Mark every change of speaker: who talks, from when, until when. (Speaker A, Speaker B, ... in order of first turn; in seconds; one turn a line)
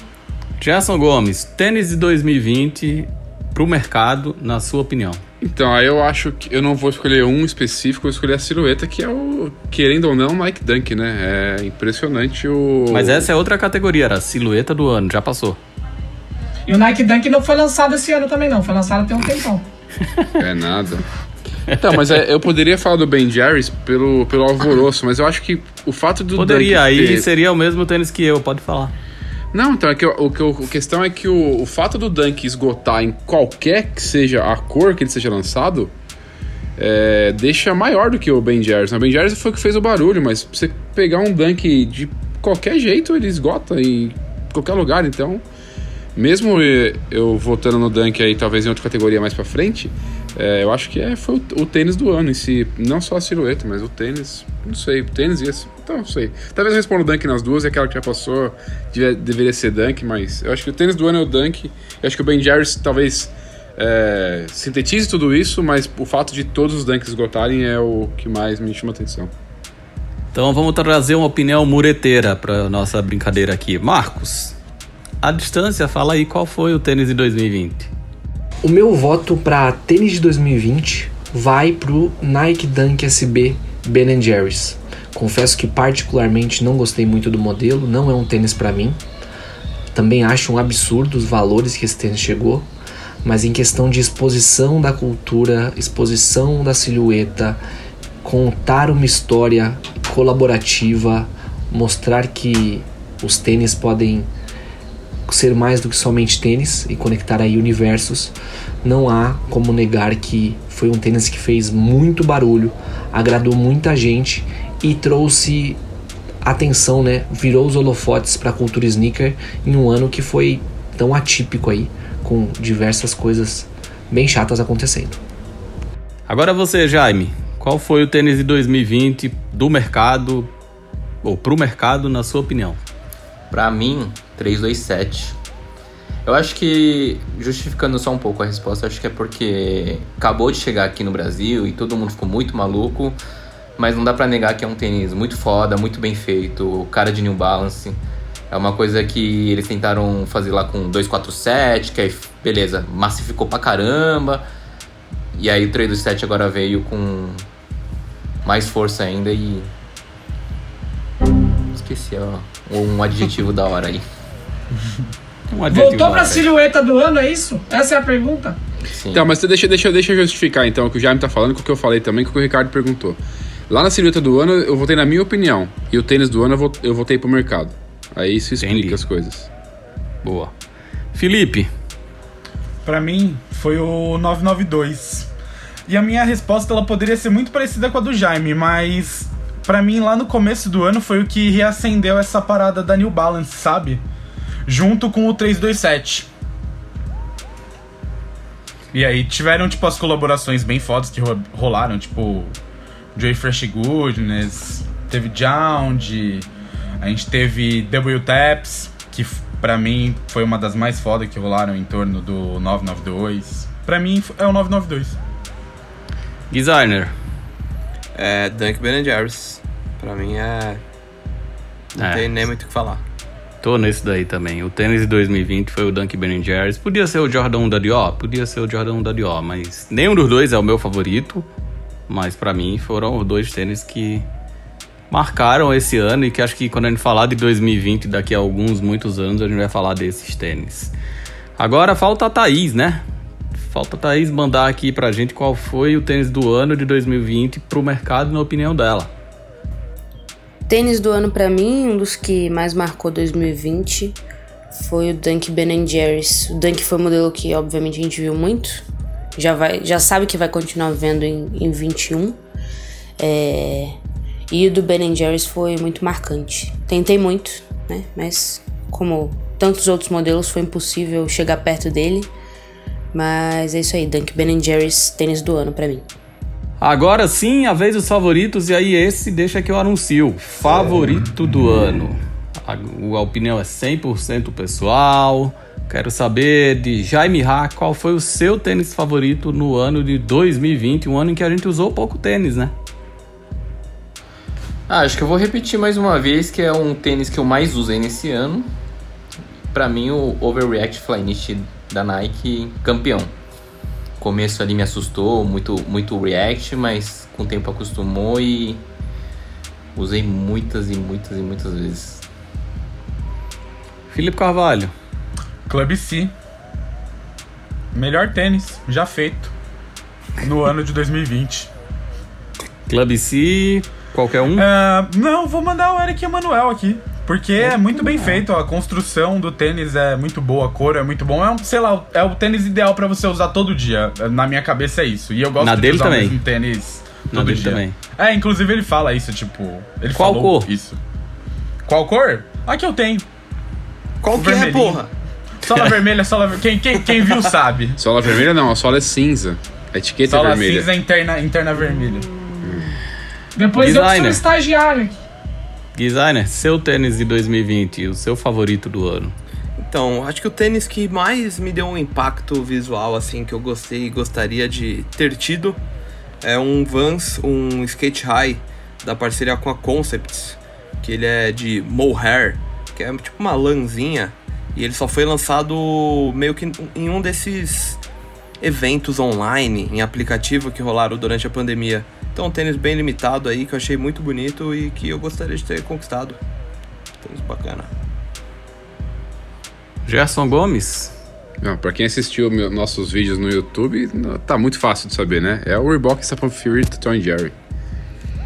Speaker A: 0.6-5.2
Speaker B: 5.4-13.3
Speaker A: 12.9-15.6
Speaker C: 16.7-19.6
Speaker B: 20.4-21.1
Speaker B: 21.7-27.3
Speaker A: 26.4-28.9
Speaker B: 29.5-35.9
Speaker B: 36.8-45.4
Speaker B: 46.2-69.3
Speaker A: 70.3-74.6
Speaker A: 75.2-77.9
Speaker D: 78.6-89.0
Speaker D: 89.9-92.7
Speaker D: 93.2-97.6
Speaker D: 98.2-104.3
Speaker D: 105.3-115.8
Speaker D: 116.4-125.2
Speaker A: 126.3-130.5
Speaker A: 131.2-132.8
Speaker E: 133.5-135.4
Speaker E: 136.2-143.2
Speaker E: 143.8-148.0
Speaker E: 148.5-154.4
Speaker E: 155.3-157.4
Speaker E: 158.4-159.7
Speaker E: 161.7-164.0
Speaker A: 165.5-166.5
Speaker C: 165.7-168.6
Speaker E: 168.9-169.2
Speaker B: 169.1-179.5
Speaker A: 178.6-179.0
Speaker A: 180.2-180.5
Speaker A: 181.1-181.7
Speaker F: 182.8-185.3
Speaker F: 185.9-194.0
Speaker F: 194.7-196.3
Speaker F: 198.9-202.6
Speaker F: 203.2-206.5
Speaker F: 207.0-215.2
Speaker A: 216.5-217.1
Speaker G: 218.2-220.8
Speaker G: 222.0-223.0
Speaker A: 222.0-222.4
Speaker A: 223.6-231.5
Speaker A: 232.1-234.3
Speaker A: 235.1-240.9
Speaker A: 241.6-243.0
Speaker A: 243.6-249.1
Speaker H: 250.7-254.2
Speaker H: 254.7-258.9
Speaker H: 259.4-262.4
Speaker H: 263.2-264.0
Speaker H: 264.5-272.3
Speaker H: 273.1-276.1
Speaker A: 276.8-292.7
Speaker E: 294.9-298.7
Speaker E: 299.7-303.3
Speaker E: 304.2-308.8
Speaker E: 309.9-312.2
Speaker A: 314.1-314.9
Speaker F: 315.7-316.3
Speaker F: 317.9-319.5
Speaker F: 320.4-321.7
Speaker A: 322.9-324.7
Speaker F: 324.6-341.0
Speaker A: 327.6-328.4
Speaker A: 335.6-336.4
Speaker A: 337.3-338.0
Speaker A: 340.1-340.7
Speaker F: 341.9-343.2
Speaker G: 344.2-345.1
Speaker F: 344.3-345.0
Speaker F: 345.6-348.0
Speaker B: 348.0-350.9
Speaker F: 350.3-352.3
Speaker B: 352.6-352.9
Speaker C: 353.6-355.2
Speaker A: 353.8-354.4
Speaker A: 356.0-359.4
Speaker G: 359.8-365.8
Speaker G: 366.4-378.0
Speaker G: 378.6-386.4
Speaker G: 387.2-387.9
Speaker A: 390.1-391.1
Speaker B: 391.6-397.6